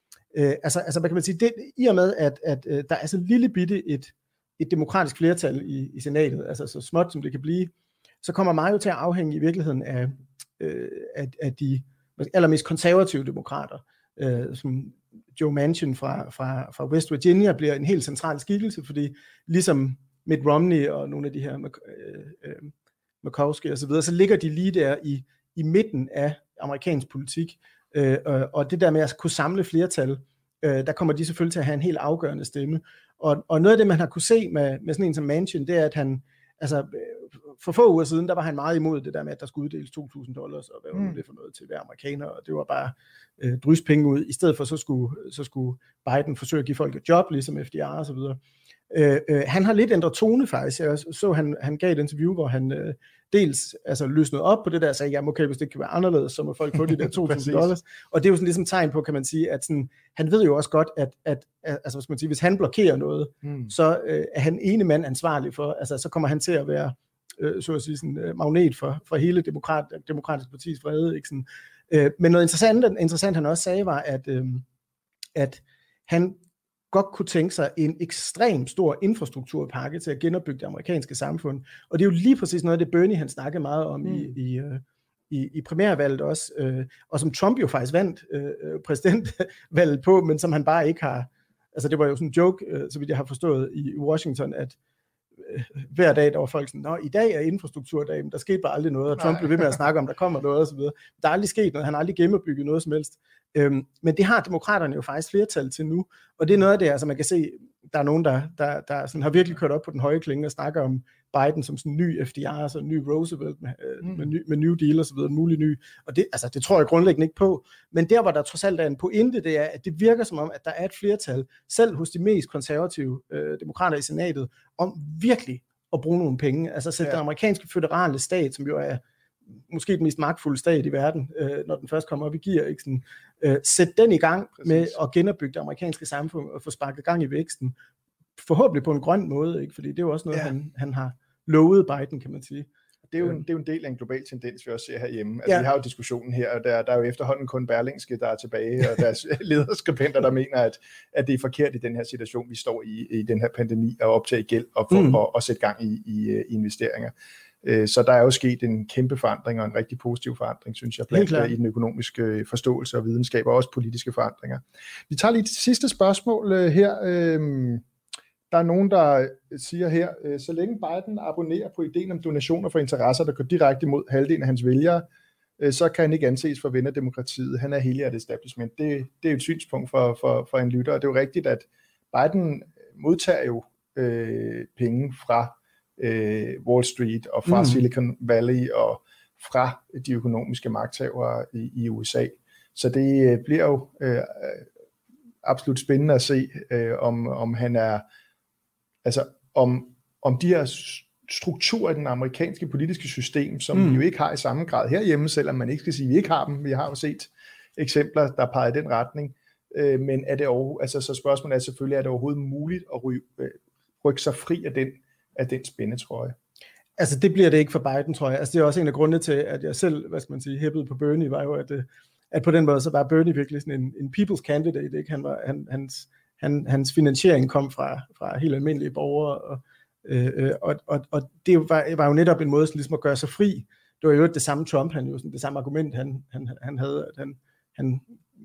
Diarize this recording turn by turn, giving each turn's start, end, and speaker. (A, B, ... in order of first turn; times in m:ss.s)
0:00.3-0:07.7 A
0:08.2-0:48.4 A
0:40.9-0:41.2 B
0:48.9-1:14.6 A
0:56.9-0:57.7 B
1:03.4-1:03.7 B
1:15.3-1:16.4 A
1:16.9-1:34.8 A
1:24.0-1:24.3 B
1:35.4-2:09.0 A
1:39.2-1:39.7 B
2:09.7-2:17.7 A
2:14.6-2:15.0 B
2:18.4-2:22.7 A
2:23.1-2:47.8 B
2:34.9-2:35.2 A
2:41.1-2:41.5 A
2:48.5-2:55.1 B
2:55.6-3:14.6 B
3:07.4-3:07.8 A
3:15.4-3:18.0 B
3:19.0-3:36.4 B
3:23.7-3:24.0 A
3:37.0-3:58.0 A